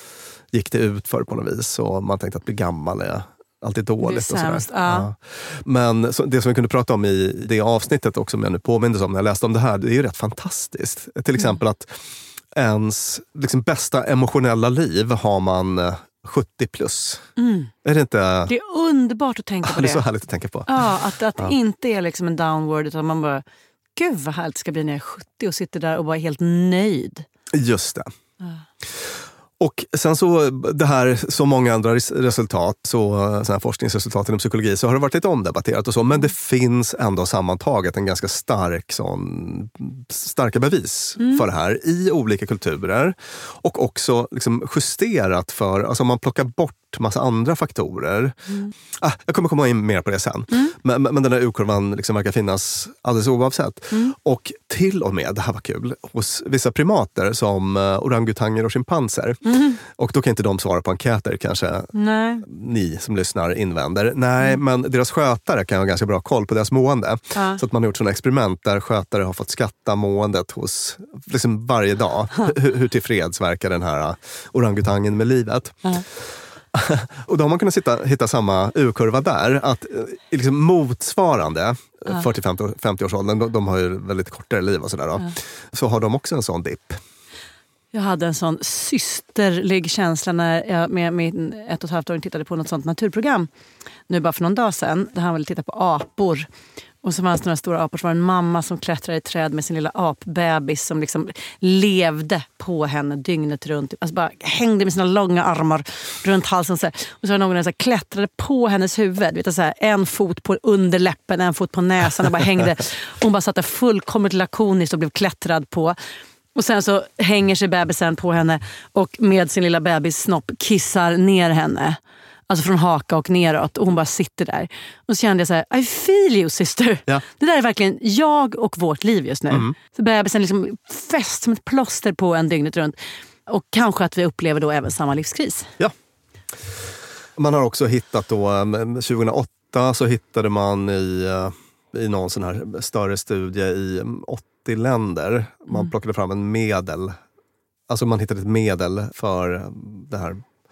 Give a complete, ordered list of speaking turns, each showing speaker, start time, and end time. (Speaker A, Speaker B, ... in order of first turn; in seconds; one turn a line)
Speaker A: 0.5-17.2
Speaker B: 4.0-5.1
Speaker B: 17.4-17.7
Speaker A: 17.8-18.5
Speaker B: 18.5-20.0
Speaker A: 19.6-20.9
Speaker B: 20.7-23.4
Speaker B: 24.0-27.3
Speaker A: 27.5-28.1
Speaker A: 28.9-48.4
Speaker B: 41.2-41.4
Speaker A: 48.9-61.9
Speaker B: 59.5-59.8
Speaker B: 61.9-62.5
Speaker A: 62.4-87.0
Speaker B: 67.3-67.6
Speaker B: 87.9-93.5
Speaker B: 94.1-96.5
Speaker B: 97.0-116.0
Speaker B: 116.5-135.7
Speaker A: 129.5-129.8
Speaker A: 137.4-147.2
Speaker A: 147.9-150.4